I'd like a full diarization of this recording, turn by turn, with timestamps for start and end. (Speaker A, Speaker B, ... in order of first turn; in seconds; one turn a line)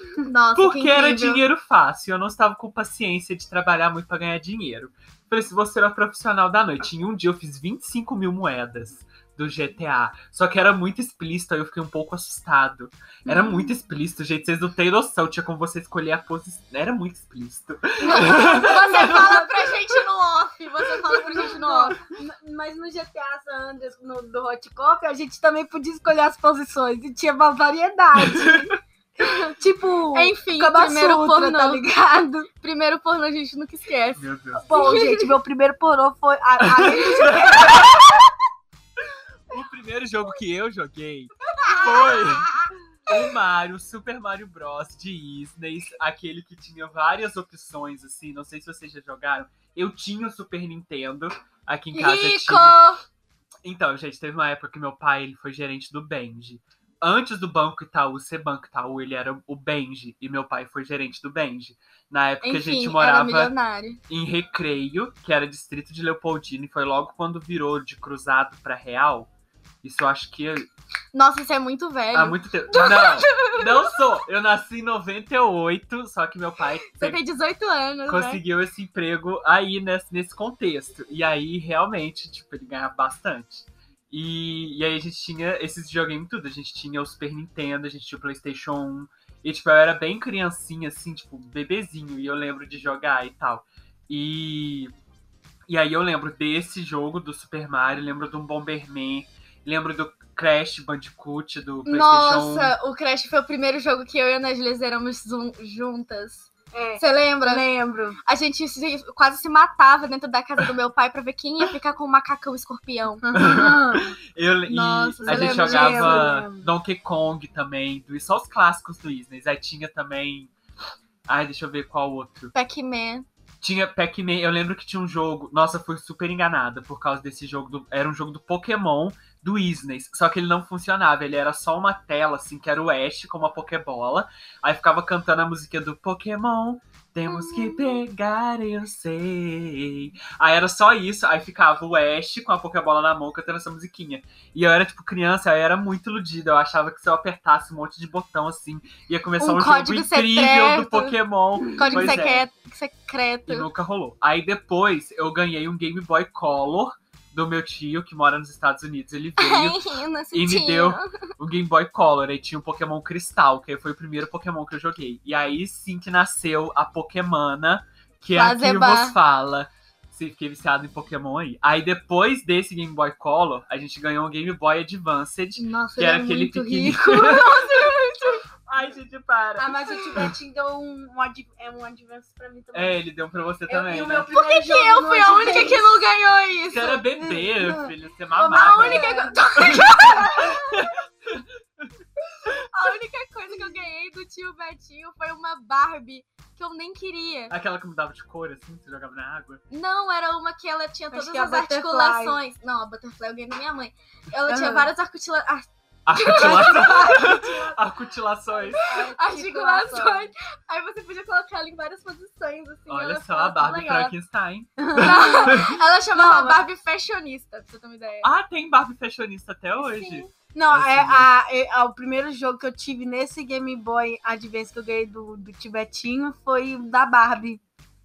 Speaker A: 0.2-1.4
Speaker B: 0.6-19.5
Speaker C: 13.3-13.7
Speaker A: 18.0-22.0
Speaker C: 18.1-19.7
Speaker C: 21.1-28.7
Speaker B: 28.2-28.7
Speaker C: 29.2-32.5
Speaker A: 30.1-31.8
Speaker A: 32.6-35.3
Speaker B: 34.2-34.7
Speaker C: 34.6-38.0
Speaker B: 36.6-38.0
Speaker B: 39.5-42.5
Speaker A: 41.6-42.5
Speaker B: 43.1-52.8
Speaker A: 51.9-53.0
Speaker B: 53.6-63.5
Speaker A: 62.4-64.0
Speaker B: 64.1-69.3
Speaker B: 69.8-70.7
Speaker A: 71.1-74.0
Speaker B: 72.1-77.2
Speaker A: 77.0-78.4
Speaker B: 78.1-94.9
Speaker B: 95.7-102.8
Speaker A: 101.9-107.7
Speaker C: 106.7-108.2
Speaker A: 108.3-113.3
Speaker C: 113.2-114.1
Speaker B: 113.3-120.5
Speaker A: 114.7-116.3
Speaker C: 115.2-116.7
Speaker B: 121.3-122.5
Speaker A: 122.5-123.3
Speaker B: 123.6-152.4
Speaker A: 137.5-137.9
Speaker A: 149.4-151.2
Speaker A: 151.7-153.7
Speaker B: 153.5-159.8
Speaker A: 159.4-161.1
Speaker B: 160.3-177.9
Speaker A: 168.3-169.2
Speaker A: 175.6-178.4
Speaker B: 178.7-180.3
Speaker C: 179.6-183.0
Speaker B: 182.7-184.3
Speaker C: 183.7-185.9
Speaker A: 184.3-187.0
Speaker B: 186.7-191.9
Speaker C: 187.2-190.7
Speaker A: 188.5-190.4
Speaker A: 192.7-197.6
Speaker B: 197.5-199.6
Speaker A: 199.7-207.2
Speaker C: 201.1-202.4
Speaker C: 204.5-204.9
Speaker B: 206.1-208.8
Speaker C: 206.3-207.8
Speaker C: 208.6-210.3
Speaker A: 208.8-214.1
Speaker B: 212.9-215.8
Speaker C: 214.8-216.6
Speaker A: 214.9-218.3
Speaker B: 218.2-221.3
Speaker A: 219.8-220.3
Speaker C: 220.5-227.6